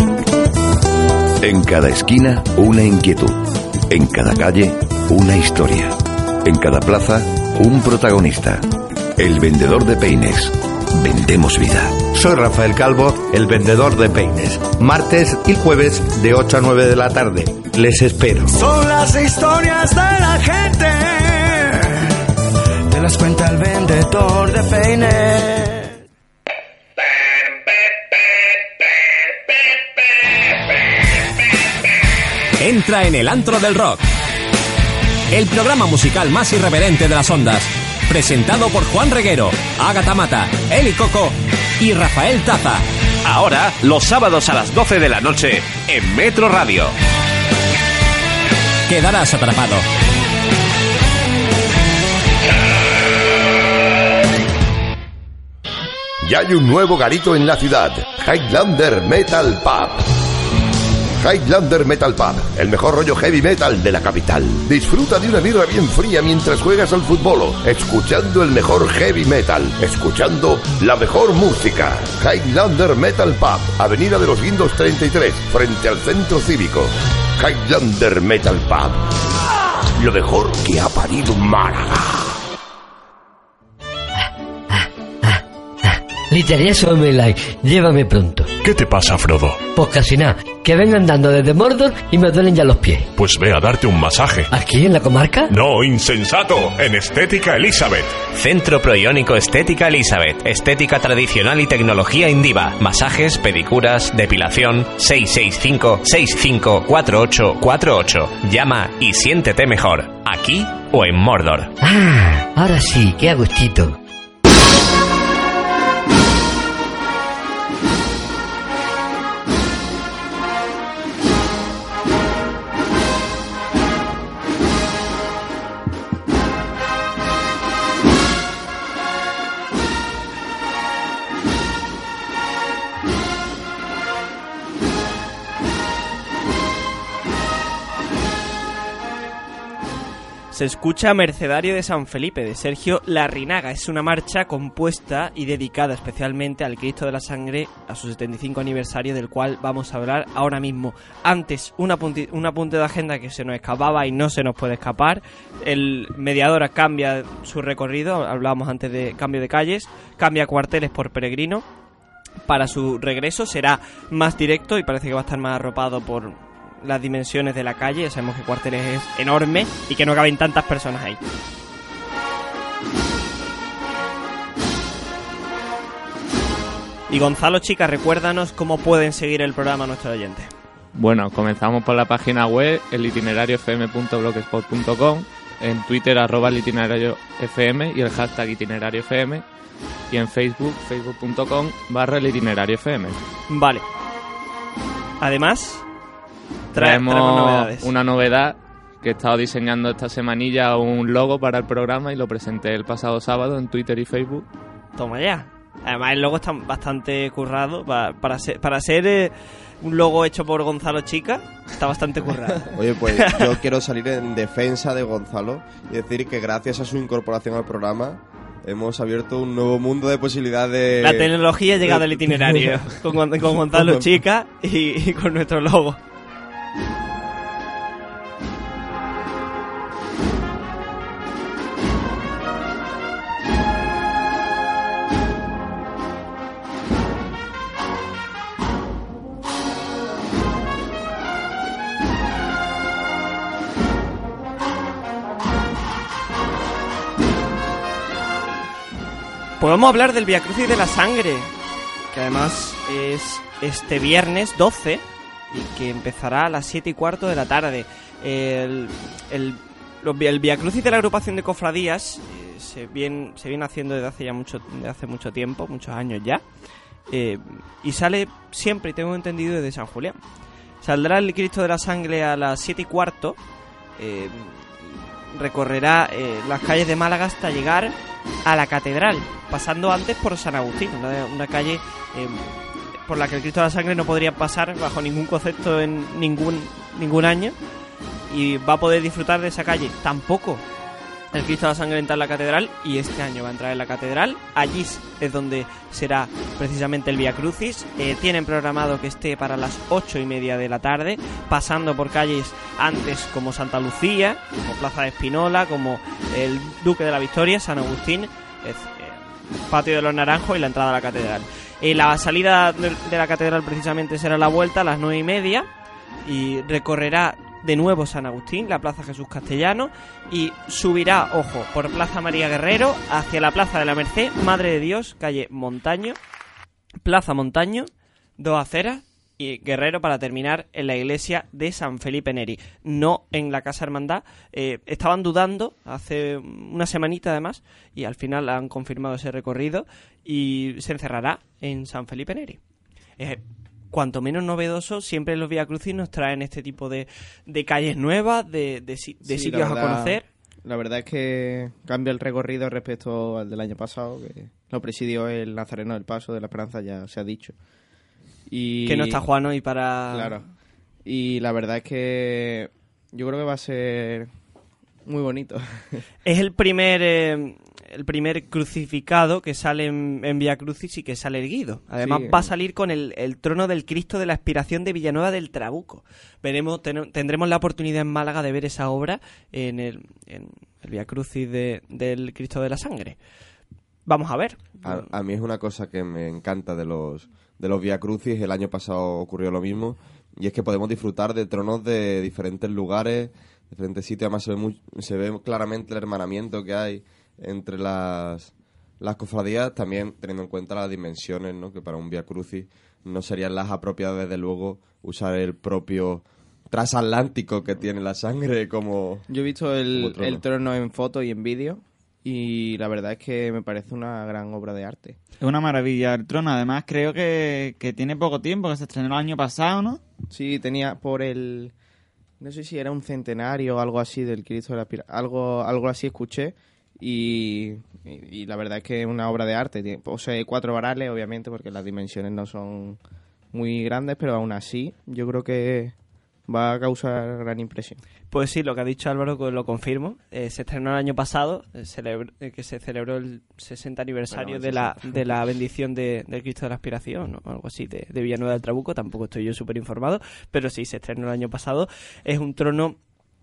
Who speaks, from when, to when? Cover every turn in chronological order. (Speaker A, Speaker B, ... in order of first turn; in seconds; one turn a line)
Speaker A: 1.4-8.6
Speaker A: 9.2-12.0
Speaker B: 12.1-18.6
Speaker C: 18.6-21.9
Speaker C: 22.9-26.0
Speaker D: 32.6-34.0
Speaker D: 35.3-42.8
Speaker E: 43.2-46.9
Speaker D: 48.9-49.9
Speaker A: 56.2-60.1
Speaker A: 61.2-79.0
Speaker A: 80.0-82.3
Speaker F: 84.7-88.5
Speaker G: 88.6-89.6
Speaker F: 89.7-93.1
Speaker G: 93.1-94.5
Speaker F: 94.5-95.5
Speaker G: 95.5-98.2
Speaker E: 98.3-111.7
Speaker F: 111.8-114.0
Speaker H: 140.5-161.7
Speaker H: 162.4-171.2
Speaker H: 177.1-180.5
Speaker I: 180.9-189.4
Speaker I: 190.1-193.2
Speaker H: 193.5-193.8
Speaker H: 195.2-195.8
Speaker H: 196.7-197.9
Speaker I: 196.7-204.4
Speaker H: 205.0-213.5
Speaker J: 212.7-223.0
Speaker H: 221.0-226.0
Speaker J: 223.7-224.1
Speaker H: 249.6-251.5
Speaker H: 252.1-266.4
Speaker H: 267.1-270.2
Speaker H: 270.8-273.4
Speaker H: 274.0-282.4
Speaker H: 283.1-287.6
Speaker H: 288.3-290.6
Speaker H: 291.3-315.7
Speaker H: 316.2-326.2
Speaker H: 327.0-342.6
Speaker H: 343.2-350.3
Speaker K: 349.2-357.6
Speaker K: 358.5-359.2
Speaker H: 358.9-360.4
Speaker K: 360.1-360.4
Speaker K: 361.1-364.3
Speaker K: 365.1-366.0
Speaker H: 366.3-383.2
Speaker K: 372.0-372.5
Speaker H: 384.1-385.0
Speaker J: 384.8-409.3
Speaker K: 409.3-415.2
Speaker J: 409.9-410.4
Speaker L: 415.4-420.0
Speaker K: 420.3-421.7
Speaker K: 422.4-433.0
Speaker K: 433.5-435.9
Speaker K: 436.5-438.0
Speaker H: 438.3-453.0
Speaker K: 444.4-445.2